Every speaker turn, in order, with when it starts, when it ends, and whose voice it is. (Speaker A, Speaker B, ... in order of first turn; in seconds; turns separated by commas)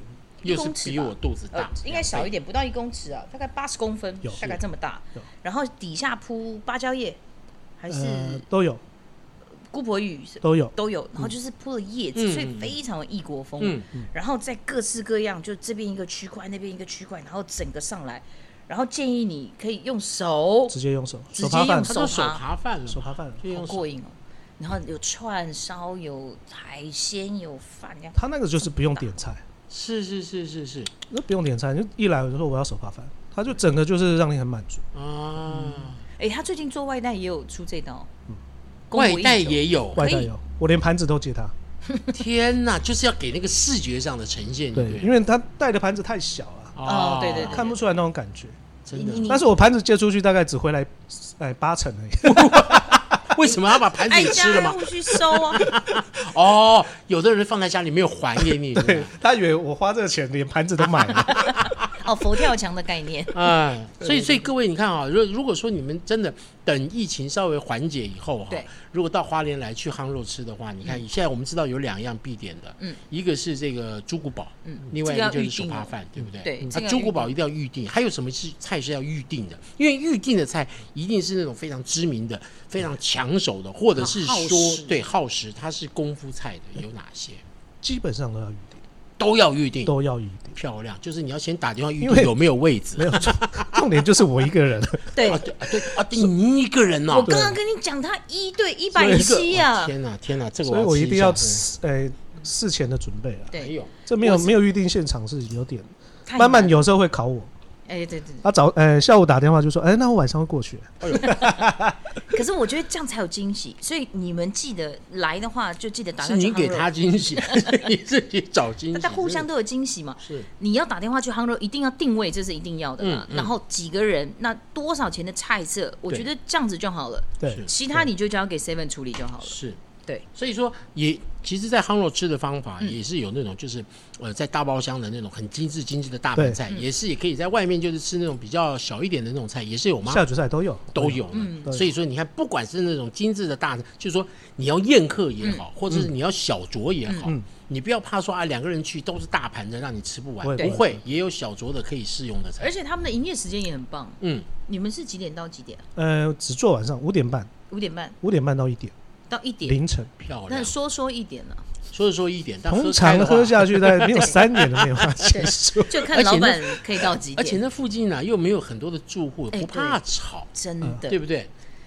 Speaker A: 0.4-2.3, Speaker B: 0.4-7.2, Speaker C: 4.2-4.6, Speaker B: 7.8-8.4, Speaker C: 7.9-8.8, Speaker B: 9.7-20.8, Speaker C: 10.4-10.7, Speaker A: 12.2-12.8, Speaker A: 13.6-13.9, Speaker C: 20.7-21.9, Speaker B: 21.3-22.4, Speaker A: 21.8-23.9, Speaker C: 22.9-23.4, Speaker B: 23.5-28.2, Speaker C: 28.1-29.4, Speaker A: 29.7-30.9, Speaker C: 31.1-34.8, Speaker A: 34.9-36.0, Speaker B: 35.5-38.1, Speaker B: 38.9-40.3, Speaker A: 38.9-40.0, Speaker C: 39.9-41.5, Speaker A: 42.1-45.1, Speaker C: 44.7-46.8, Speaker A: 46.8-47.6, Speaker B: 46.8-47.8, Speaker C: 47.3-48.6, Speaker A: 48.9-49.3, Speaker B: 48.9-49.5, Speaker C: 49.3-53.1, Speaker A: 52.2-59.1, Speaker B: 54.0-55.7, Speaker C: 58.7-61.5, Speaker A: 61.0-61.9, Speaker B: 61.2-63.5, Speaker A: 63.3-87.4, Speaker B: 74.6-77.3, Speaker B: 84.0-85.0, Speaker C: 87.8-88.8, Speaker A: 89.2-89.9, Speaker C: 89.8-90.5, Speaker A: 90.5-94.0, Speaker C: 92.0-92.3, Speaker C: 93.0-95.2, Speaker B: 95.1-95.4, Speaker A: 95.2-97.4, Speaker B: 97.1-99.9, Speaker C: 97.2-97.6, Speaker A: 98.9-101.7, Speaker C: 99.0-99.3, Speaker C: 100.6-107.5, Speaker B: 103.5-104.5, Speaker A: 103.5-103.9, Speaker B: 106.3-106.8, Speaker B: 107.9-108.5, Speaker C: 108.4-112.0, Speaker A: 111.0-111.4, Speaker B: 111.2-111.6, Speaker B: 112.2-116.9, Speaker A: 116.2-119.5, Speaker B: 117.4-117.8, Speaker B: 118.9-130.2, Speaker A: 120.2-120.5, Speaker A: 123.0-123.5, Speaker C: 127.4-128.1, Speaker A: 129.4-129.8, Speaker A: 130.3-140.2, Speaker C: 140.1-141.9, Speaker A: 140.9-152.7, Speaker B: 141.3-141.8, Speaker B: 147.1-147.3, Speaker C: 150.4-151.0, Speaker B: 152.6-155.8, Speaker A: 154.2-154.5, Speaker C: 155.9-157.5, Speaker B: 157.7-158.2, Speaker C: 158.2-158.9, Speaker B: 159.3-159.8, Speaker C: 159.6-160.1, Speaker A: 160.2-160.7, Speaker B: 160.5-161.6, Speaker A: 161.9-170.5, Speaker C: 162.7-166.1, Speaker B: 165.3-167.6, Speaker B: 169.5-170.0, Speaker B: 170.5-171.2, Speaker A: 171.1-171.5